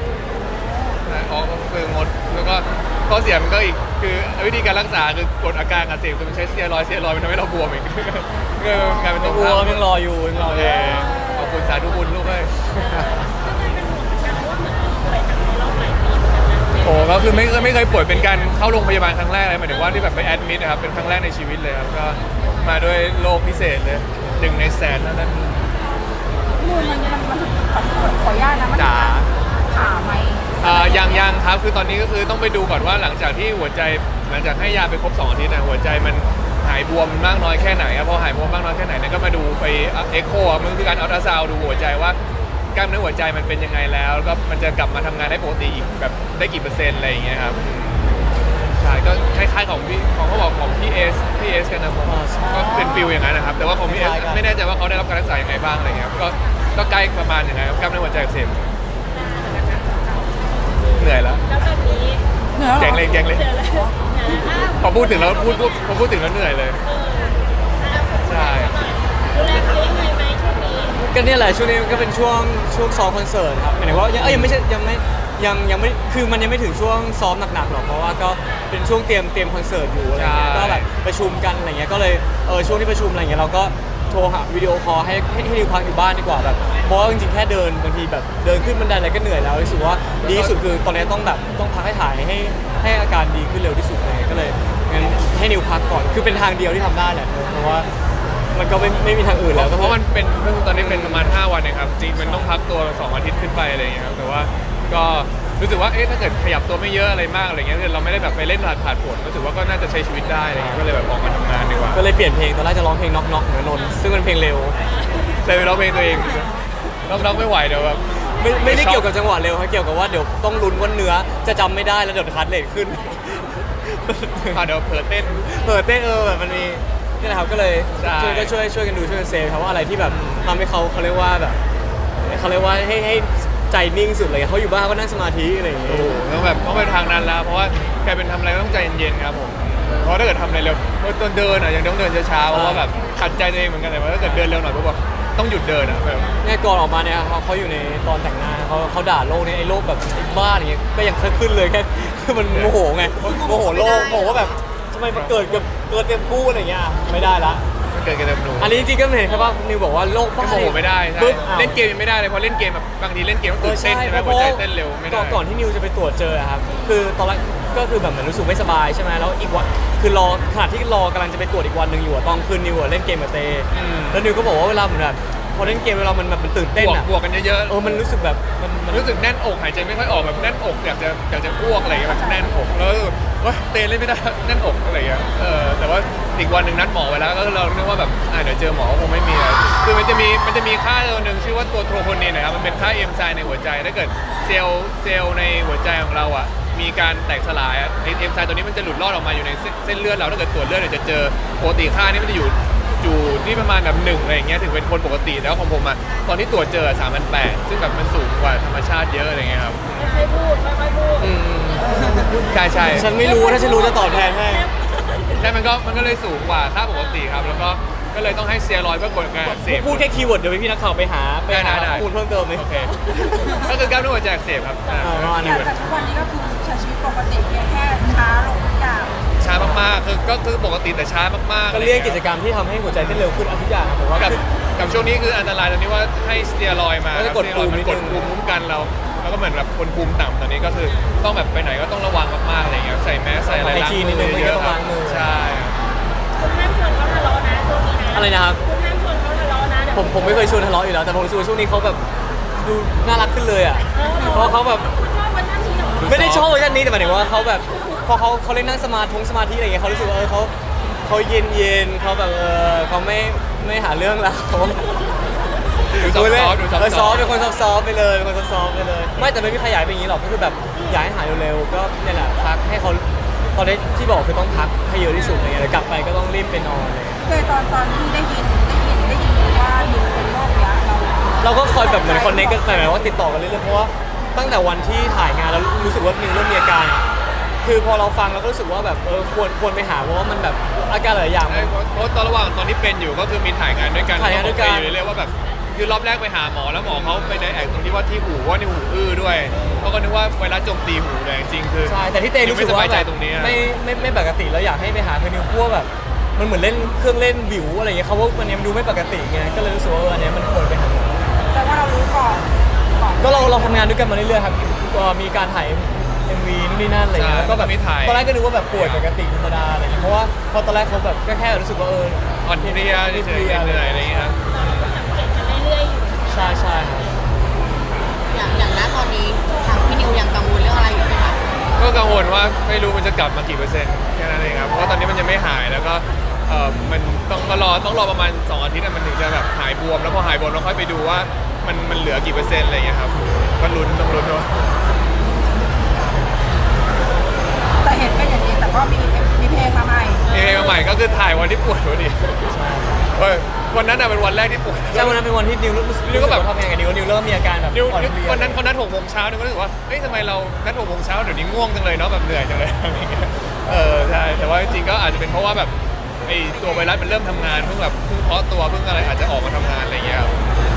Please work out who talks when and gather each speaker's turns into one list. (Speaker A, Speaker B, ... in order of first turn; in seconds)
Speaker A: 0.4-1.0, 8.7-9.2, 10.6-11.8, 26.6-31.3, 52.5-53.2, 62.5-63.1, 181.8-182.7, 211.9-212.4, 225.4-229.2, 277.2-282.9, 311.5-313.7, 347.8-350.3
Speaker B: 1.1-12.7, 16.8-25.7, 28.8-29.3, 30.6-42.2, 42.7-58.7, 61.0-61.6, 62.7-63.6, 64.8-66.8, 68.2-68.8, 74.2-74.6, 80.1-80.9, 90.2-90.6, 99.5-112.1, 115.4-118.1, 118.6-119.1, 124.5-125.5, 128.0-128.5, 130.0-130.6, 135.9-146.4, 152.4-153.4, 155.1-155.6, 157.9-158.9, 160.4-165.4, 173.7-174.2, 176.8-178.0, 178.9-210.1, 212.3-213.1, 215.4-220.1, 221.5-223.0, 223.6-225.7, 229.4-232.2, 232.9-233.3, 234.2-245.8, 256.0-256.5, 265.9-267.3, 291.5-303.6, 317.1-319.1, 322.4-325.0, 331.8-344.7, 350.3-352.5, 353.1-355.3, 356.1-356.5, 357.7-365.7, 366.2-370.4
Speaker C: 9.2-11.1, 12.8-13.1, 52.0-52.9, 53.8-54.5, 71.0-97.9, 98.5-100.0, 100.7-101.4, 102.2-102.5, 110.5-110.9, 111.9-114.8, 118.2-124.6, 125.4-131.6, 132.2-136.1, 142.5-142.9, 144.2-144.5, 146.4-157.6, 158.6-161.8, 163.6-177.1, 177.7-179.2, 211.2-214.7, 219.4-223.6, 225.0-225.7, 229.5-229.9, 231.7-234.4, 237.1-238.3, 243.4-245.3, 248.1-248.6, 249.9-252.0, 252.6-254.9, 256.0-260.5, 261.0-265.0, 265.9-277.2, 281.4-287.1, 287.6-291.7, 294.2-295.0, 299.6-299.9, 301.9-311.2, 313.2-324.3, 326.3-327.1, 352.5-353.1, 354.9-358.6
Speaker D: 12.9-18.4, 59.1-60.3, 61.5-62.2, 63.0-66.0, 66.8-71.0, 114.9-115.3, 210.0-211.3, 213.0-215.5, 224.9-225.2, 246.3-250.4, 253.9-256.1, 324.5-327.0, 350.4-350.7
Speaker E: 153.5-154.5, 328.3-331.4